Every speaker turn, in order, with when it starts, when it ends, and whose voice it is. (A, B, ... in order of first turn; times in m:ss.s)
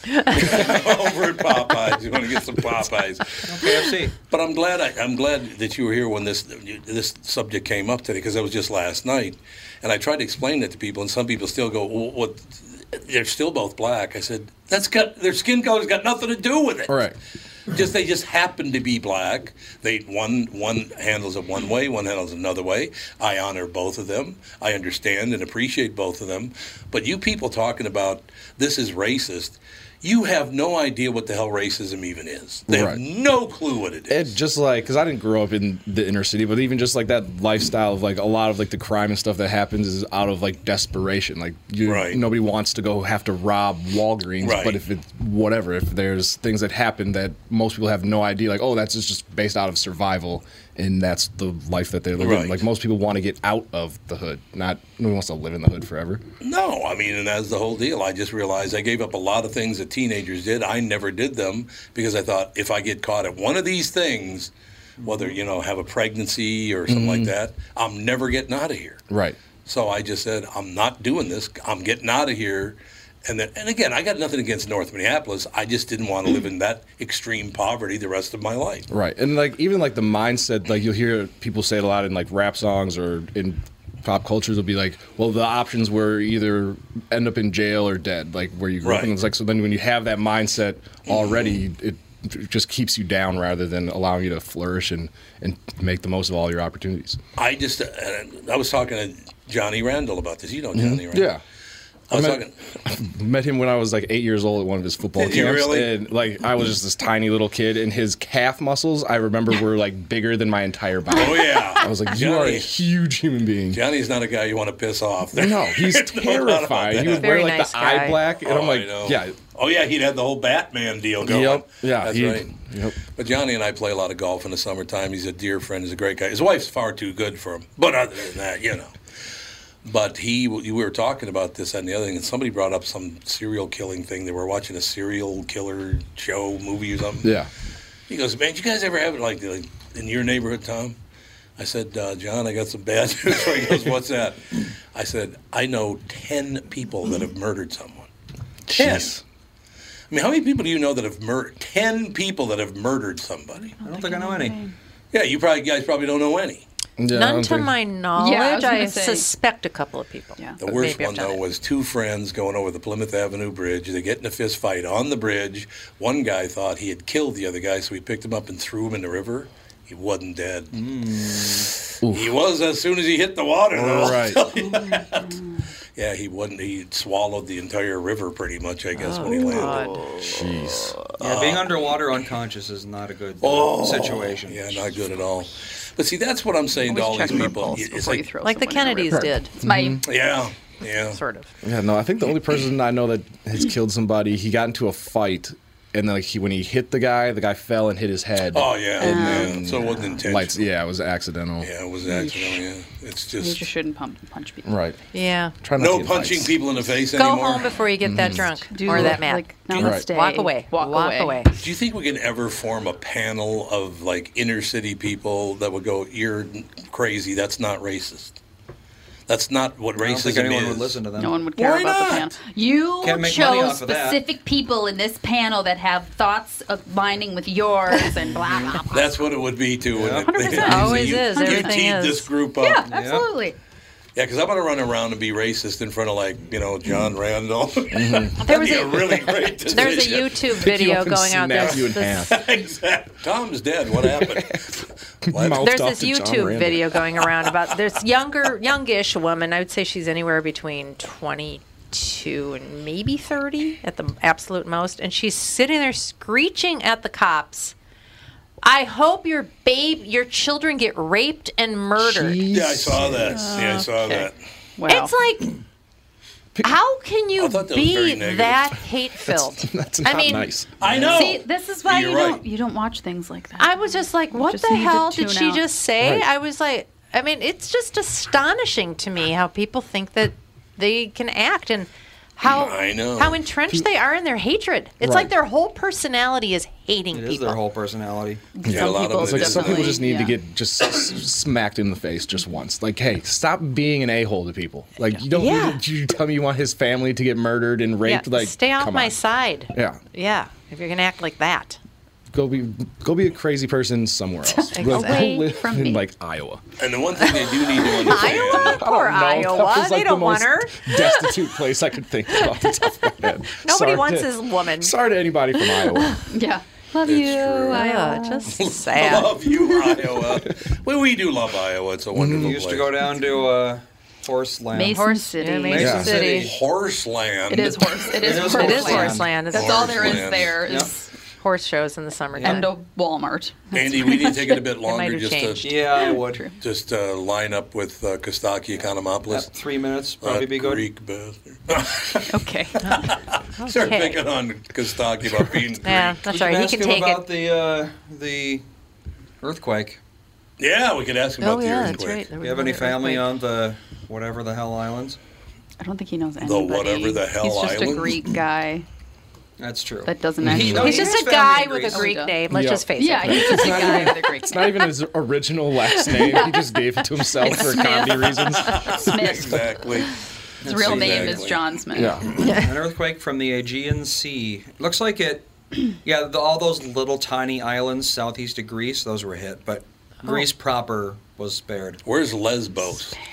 0:00.3-0:03.4 A
0:03.5-0:04.1 B
0:04.3-0:17.0 A
0:16.9-0:17.2 C
0:17.7-0:34.4 A
0:32.7-0:33.0 C
0:34.1-0:56.2 C
0:41.8-0:42.2 A
0:44.4-0:44.8 A
0:52.2-0:52.6 A
0:56.4-1:04.5 A
1:05.0-1:05.4 B
1:05.0-1:09.0 A
1:06.9-1:07.3 C
1:09.1-1:09.4 C
1:09.7-1:18.9 A
1:18.9-1:37.2 C
1:28.8-1:29.1 A
1:31.1-1:31.5 A
1:37.4-1:41.3 A
1:40.7-1:41.4 C
1:42.1-1:42.6 A
1:42.1-1:53.8 C
1:45.2-1:46.0 A
1:51.1-1:52.7 A
1:53.7-1:57.3 A
1:55.3-1:59.4 C
1:57.1-1:58.2 D
1:58.4-2:02.5 A
2:01.2-2:03.0 C
2:03.2-2:08.9 A
2:09.8-2:17.3 A
2:17.2-2:17.5 C
2:18.1-2:21.0 A
2:21.6-2:28.1 A
2:28.7-2:29.2 C
2:28.7-2:29.2 A
2:30.1-2:33.7 A
2:33.8-2:34.7 E
2:33.8-2:34.6 B
2:35.1-2:36.7 A
2:37.0-2:37.8 C
2:37.1-2:41.4 D
2:38.2-2:39.3 E
2:40.6-2:50.8 A
2:50.7-2:51.7 B
2:52.0-2:52.3 C
2:52.1-2:55.3 A
2:53.7-2:54.4 C
2:54.6-2:55.5 E
2:56.0-2:59.9 A
2:59.0-3:00.4 D
3:00.2-3:01.0 C
3:01.2-3:04.8 B
3:01.2-3:01.7 A
3:03.4-3:08.2 A
3:06.9-3:10.0 E
3:08.4-3:09.5 D
3:09.1-3:10.0 C
3:10.0-3:11.2 A
3:11.1-3:11.5 D
3:11.6-3:21.7 C
3:18.5-3:20.7 A
3:19.0-3:20.2 E
3:21.6-3:23.7 A
3:23.4-3:24.8 E
3:24.7-3:25.0 C
3:25.1-3:25.6 D
3:25.6-3:26.6 C
3:25.8-3:27.7 A
3:27.1-3:31.5 D
3:28.0-3:29.2 C
3:28.7-3:31.4 E
3:29.8-3:30.0 C
3:31.6-3:38.4 A
3:39.3-3:41.0 A
3:40.0-3:41.4 B
3:41.2-3:49.0 E
3:41.6-3:42.3 A
3:43.0-3:44.2 B
3:47.9-3:49.1 D
3:48.3-3:48.8 B
3:48.9-3:52.9 A
3:49.9-3:50.6 B
3:50.3-3:51.9 E
3:50.6-3:52.3 D
3:52.6-3:53.6 E
3:52.9-3:53.3 B
3:54.2-4:00.4 A
3:57.9-3:58.4 C
3:58.4-4:02.3 D
4:00.5-4:02.4 C
4:02.3-4:05.8 A
4:04.0-4:04.6 C
4:05.2-4:07.0 C
4:05.6-4:17.7 D
4:18.6-4:22.4 D
4:22.0-4:23.6 C
4:22.5-4:24.4 A
4:23.3-4:25.1 E
4:24.9-4:25.6 D
4:26.6-4:30.5 D
4:27.4-4:28.8 A
4:29.2-4:31.3 C
4:30.8-4:32.4 A
4:31.1-4:35.7 E
4:33.6-4:47.6 D
4:36.0-4:36.3 C
4:42.4-4:43.4 A
4:45.0-4:45.3 C
4:47.1-4:48.4 B
4:48.6-4:50.4 E
4:48.6-4:59.2 C
4:48.7-4:50.0 A
4:55.3-4:55.8 D
4:58.0-5:01.8 D
4:59.7-5:00.0 C
5:02.3-5:06.6 C
5:04.5-5:06.0 E
5:04.7-5:05.4 D
5:06.8-5:08.8 A
5:07.8-5:11.3 D
5:08.5-5:16.2 C
5:13.5-5:14.9 D
5:15.6-5:16.2 D
5:16.3-5:18.5 E
5:17.0-5:17.9 A
5:17.7-5:19.4 D
5:18.5-5:23.0 A
5:22.2-5:22.6 C
5:22.4-5:25.0 B
5:24.7-5:26.0 E
5:24.9-5:26.5 D
5:25.7-5:26.6 B
5:25.8-5:26.1 C
5:26.1-5:27.8 A
5:27.5-5:30.9 E
5:28.2-5:29.4 B
5:28.4-5:30.8 D
5:29.5-5:30.6 A
5:30.6-5:30.9 B
5:31.4-5:32.7 D
5:32.4-5:32.7 B
5:32.4-5:34.4 E
5:33.7-5:36.0 A
5:34.0-5:35.9 D
5:35.6-5:36.5 B
5:36.0-5:36.6 E
5:36.6-5:39.5 A
5:39.3-5:40.9 B
5:40.2-5:46.2 A
5:42.3-5:43.1 E
5:43.6-5:44.2 D
5:45.8-5:47.3 D
5:46.3-5:48.6 B
5:49.4-5:50.0 B
5:50.6-5:52.3 A
5:51.4-5:53.3 D
5:52.4-5:55.2 B
5:55.8-5:58.9 E
5:56.4-5:58.1 A
5:59.6-6:02.2 B
6:00.1-6:02.4 E
6:00.4-6:00.9 C
6:00.7-6:04.2 D
6:02.5-6:09.0 C
6:03.0-6:04.9 E
6:06.1-6:06.6 E
6:07.4-6:09.8 E
6:08.7-6:10.2 A
6:10.6-6:11.6 B
6:10.6-6:12.2 E
6:10.7-6:11.6 A
6:12.0-6:12.4 C
6:12.4-6:15.5 B
6:12.4-6:12.7 D
6:16.0-6:22.0 B
6:22.0-6:23.2 A